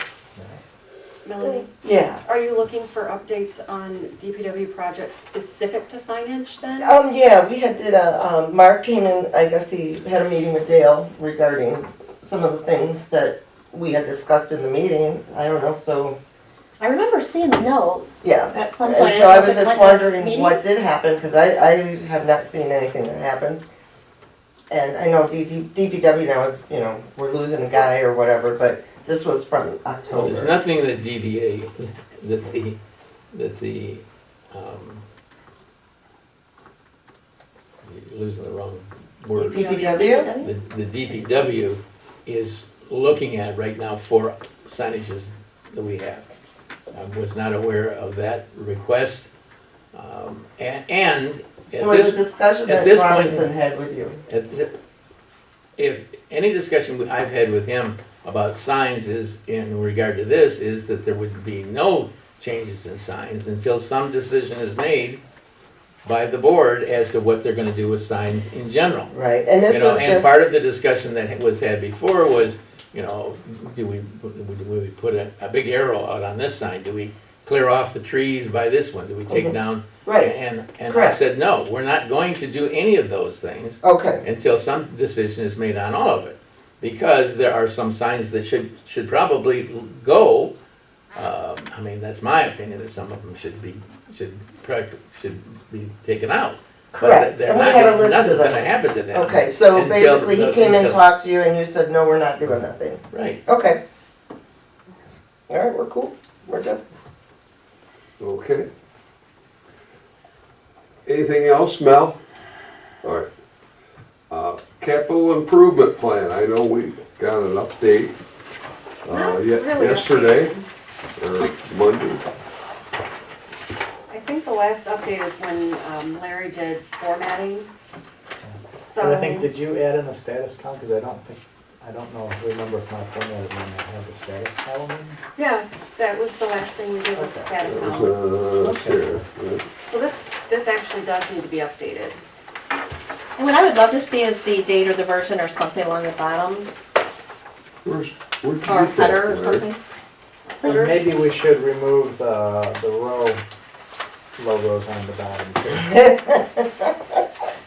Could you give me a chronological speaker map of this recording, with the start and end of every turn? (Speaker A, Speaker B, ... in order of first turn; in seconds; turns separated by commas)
Speaker A: 1.2-1.7, Speaker B: 1.4-2.2, Speaker A: 2.2-6.9, Speaker B: 6.8-16.2, Speaker C: 16.8-20.6, Speaker B: 18.2-23.6, Speaker B: 24.7-30.6, Speaker D: 30.1-32.8, Speaker D: 33.3-35.0, Speaker D: 37.9-39.6, Speaker C: 39.4-40.5, Speaker B: 39.4-40.3, Speaker A: 39.6-40.0, Speaker D: 40.4-46.3, Speaker D: 46.9-49.3, Speaker D: 49.9-53.5, Speaker B: 51.8-54.2, Speaker D: 54.3-54.7, Speaker D: 55.8-65.2, Speaker D: 66.0-69.1, Speaker B: 69.1-70.4, Speaker D: 69.7-90.5, Speaker B: 79.3-80.3, Speaker B: 80.9-81.3, Speaker B: 83.8-84.2, Speaker D: 91.2-101.0, Speaker B: 96.9-103.8, Speaker D: 103.1-103.4, Speaker B: 105.5-106.8, Speaker E: 108.2-108.7, Speaker E: 111.1-112.2, Speaker E: 113.0-113.3, Speaker E: 114.3-118.2, Speaker A: 119.0-120.7, Speaker E: 119.0-120.5, Speaker E: 121.2-122.3, Speaker A: 124.1-127.7, Speaker F: 128.4-135.2, Speaker A: 128.7-129.5, Speaker A: 135.4-138.2, Speaker E: 137.6-139.6, Speaker F: 138.6-139.2, Speaker A: 139.8-142.2, Speaker C: 143.4-146.7, Speaker E: 147.8-149.7, Speaker C: 148.7-149.8, Speaker A: 150.5-151.0, Speaker C: 150.6-150.9, Speaker F: 150.6-153.4, Speaker F: 154.4-155.9, Speaker B: 155.8-156.9